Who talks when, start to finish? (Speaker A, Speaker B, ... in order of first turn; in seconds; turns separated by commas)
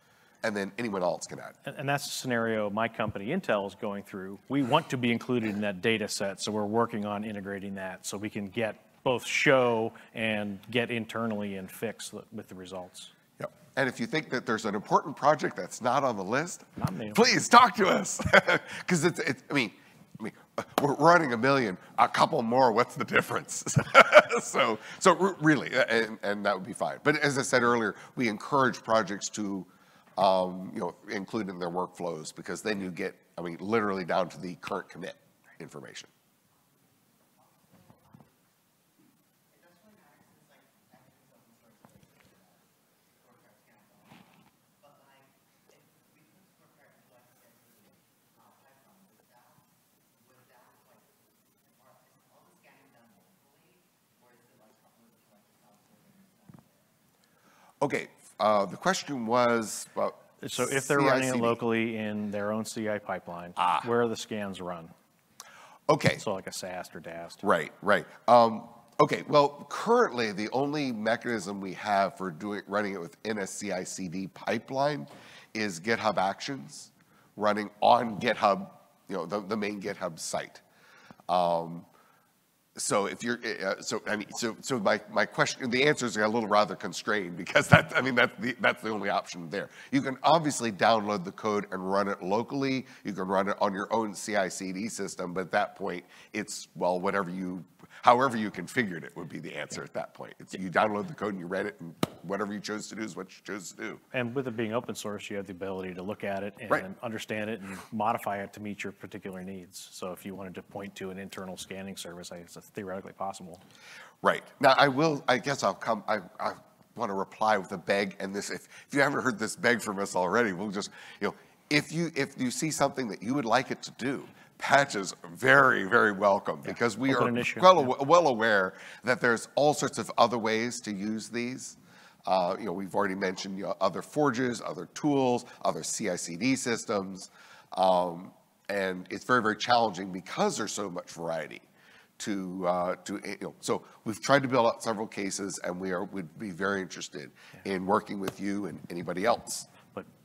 Speaker A: 0.4-1.6, Speaker B: 1.7-13.1, Speaker A: 13.4-36.1, Speaker B: 16.8-17.2, Speaker C: 36.5-38.5, Speaker C: 39.5-57.0, Speaker A: 57.8-61.6, Speaker B: 60.4-64.9, Speaker A: 63.6-63.9, Speaker A: 65.9-66.2, Speaker B: 66.2-67.4, Speaker A: 67.4-80.6, Speaker A: 81.3-81.9, Speaker A: 82.8-104.0, Speaker B: 104.1-113.6, Speaker A: 114.2-141.7, Speaker B: 127.1-127.8, Speaker A: 142.2-149.7